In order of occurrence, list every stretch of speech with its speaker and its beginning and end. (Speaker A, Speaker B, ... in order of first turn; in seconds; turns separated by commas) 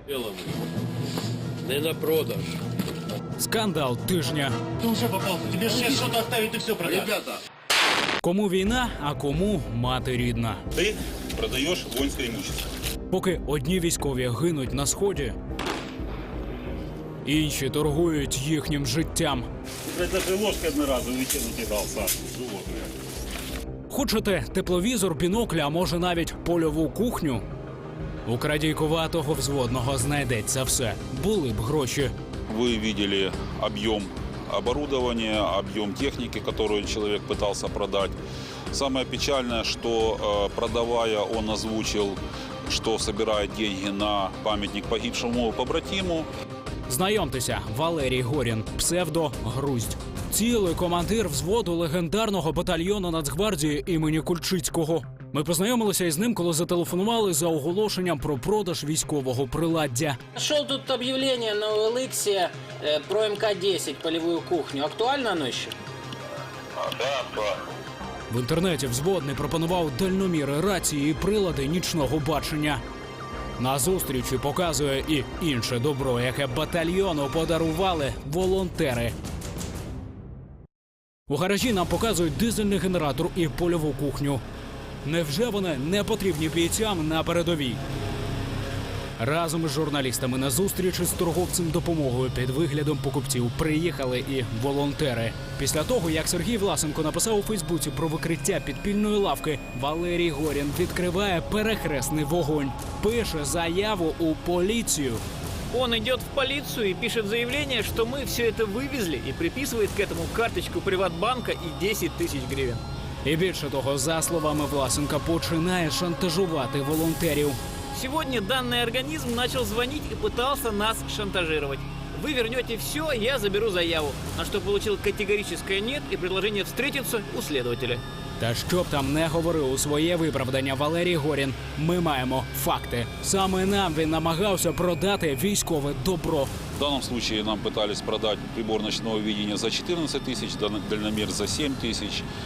Speaker A: 3.4-4.5, Speaker B: 4.8-7.1, Speaker A: 8.2-10.6, Speaker C: 10.7-12.6, Speaker A: 13.1-15.4, Speaker A: 17.2-19.5, Speaker C: 19.8-22.9, Speaker A: 23.9-27.4, Speaker A: 28.2-32.1, Speaker C: 32.5-38.2, Speaker C: 38.7-46.3, Speaker A: 46.9-60.2, Speaker D: 60.3-65.8, Speaker C: 67.0-67.4, Speaker A: 68.3-72.8, Speaker A: 73.6-79.1, Speaker A: 81.3-84.4, Speaker A: 85.0-87.8, Speaker A: 89.2-105.2, Speaker E: 105.7-112.8, Speaker A: 113.2-117.6, Speaker E: 117.9-128.0, Speaker A: 128.4-136.5, Speaker C: 136.8-142.3